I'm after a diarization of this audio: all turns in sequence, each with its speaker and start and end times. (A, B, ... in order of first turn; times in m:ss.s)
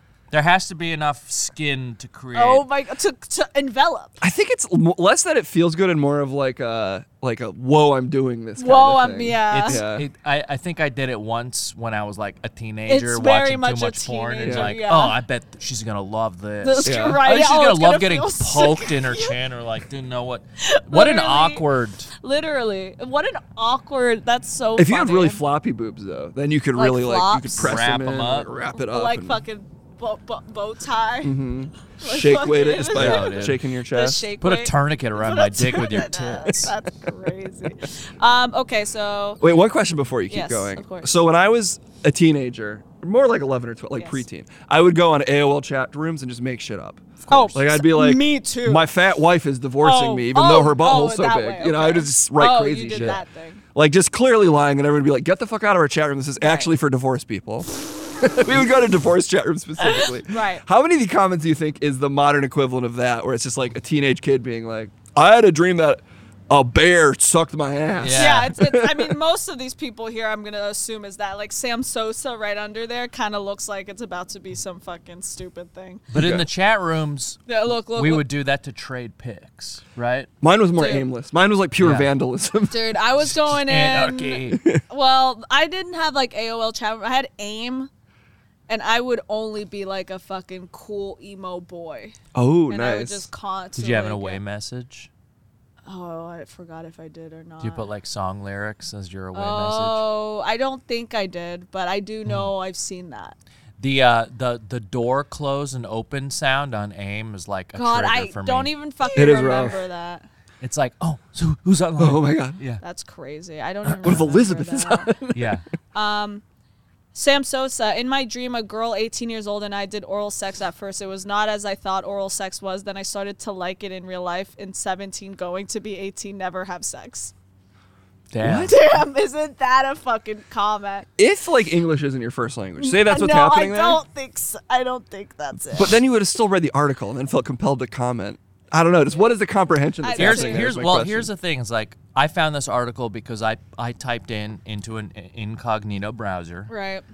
0:00.3-0:02.6 A
0:02.4-0:04.2 B
0:04.2-0:10.1 C
0:08.6-0:09.8 B
0:09.5-0:22.1 A
0:12.9-0:15.2 B
0:14.4-0:14.8 C
0:16.6-0:19.4 B
0:16.8-0:17.2 C
0:20.6-0:21.6 B
0:22.2-0:25.4 B
0:24.8-0:29.4 C
0:26.8-0:27.8 B
0:27.6-0:28.5 A
0:28.8-0:31.4 B
0:31.2-0:34.2 C
0:32.0-0:39.4 B
0:32.9-0:33.6 A
0:34.4-0:36.7 A
0:39.4-0:53.2 C
0:40.3-0:41.1 B
0:47.3-0:48.8 B
0:49.8-0:53.6 B
0:53.8-0:57.7 C
0:56.4-0:56.7 B
0:58.2-1:09.2 C
0:59.8-1:00.6 B
1:08.0-1:08.5 A
1:08.1-1:16.1 B
1:16.1-1:17.4 A
1:16.2-1:16.5 C
1:17.5-1:18.2 B
1:18.0-1:20.3 A
1:20.4-1:22.9 C
1:20.8-1:21.1 B
1:21.8-1:22.1 A
1:22.7-1:27.9 B
1:23.3-1:24.6 A
1:28.7-1:32.2 B
1:32.3-1:33.3 C
1:32.7-1:34.4 B
1:33.8-1:35.1 A
1:35.9-1:37.9 B
1:37.6-1:40.0 A
1:39.3-1:43.4 B
1:43.8-1:48.7 A
1:47.8-1:50.3 B
1:49.1-1:49.8 C
1:50.6-1:52.8 A
1:52.0-1:52.6 C
1:52.8-1:55.1 B
1:53.9-1:55.6 C
1:55.3-1:55.6 A
1:55.9-1:56.4 B
1:57.1-2:07.3 B
2:08.3-2:08.8 A
2:08.4-2:08.8 C
2:08.6-2:11.1 B
2:11.2-2:14.0 C
2:12.8-2:16.0 B
2:15.7-2:21.3 C
2:20.0-2:20.7 B
2:20.2-2:26.7 A
2:26.7-2:27.0 B